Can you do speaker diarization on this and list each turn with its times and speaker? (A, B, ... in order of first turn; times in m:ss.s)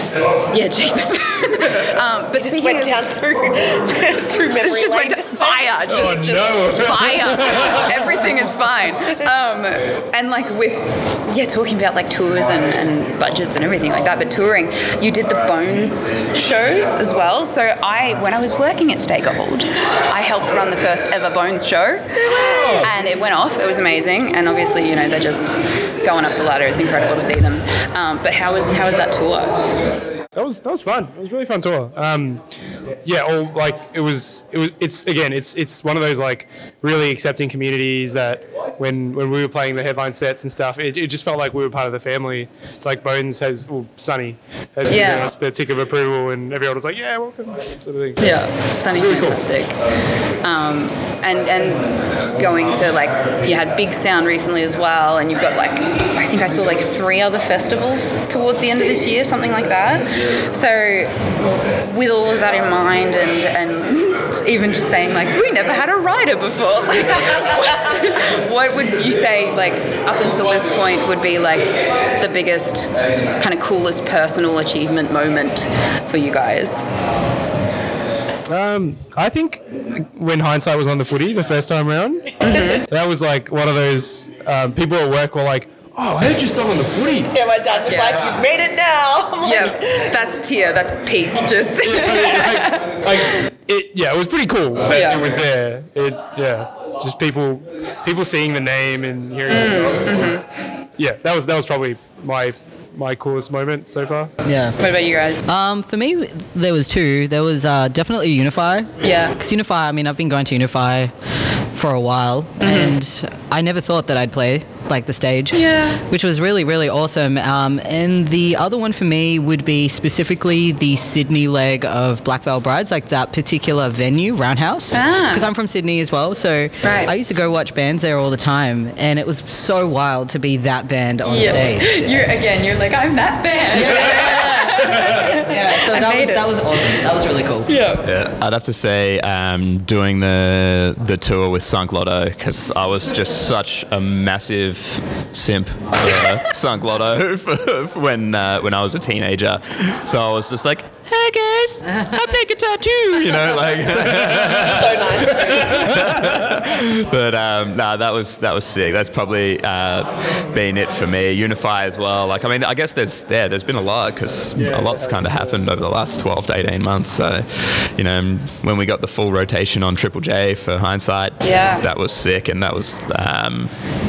0:00.5-0:03.0 A
0:02.4-0:05.7 B
0:04.6-0:29.6 A
0:05.9-0:08.2 C
0:22.2-0:22.9 C
0:30.4-0:32.4 C
0:33.0-0:48.4 C
0:44.9-0:45.3 A
0:48.2-0:49.8 A
0:48.9-0:49.4 C
0:50.4-1:16.9 A
1:18.5-1:27.3 C
1:22.4-1:22.9 A
1:27.3-1:30.1 B
1:27.9-1:28.3 A
1:29.4-1:33.3 A
1:31.8-1:40.4 C
1:34.9-1:35.3 A
1:39.5-1:40.4 A
1:41.0-1:44.3 C
1:44.4-1:44.8 D
1:44.8-1:45.4 A
1:45.5-1:51.1 D
1:49.0-1:49.4 A
1:51.7-2:12.2 D
1:52.6-1:53.0 A
1:55.5-1:56.0 A
2:04.9-2:05.5 A
2:06.8-2:07.1 A
2:11.2-2:16.5 A
2:13.7-2:17.7 D
2:17.7-2:18.0 A
2:18.0-2:53.7 E
2:34.4-2:36.0 B
2:44.6-2:45.3 C
2:51.4-2:51.9 A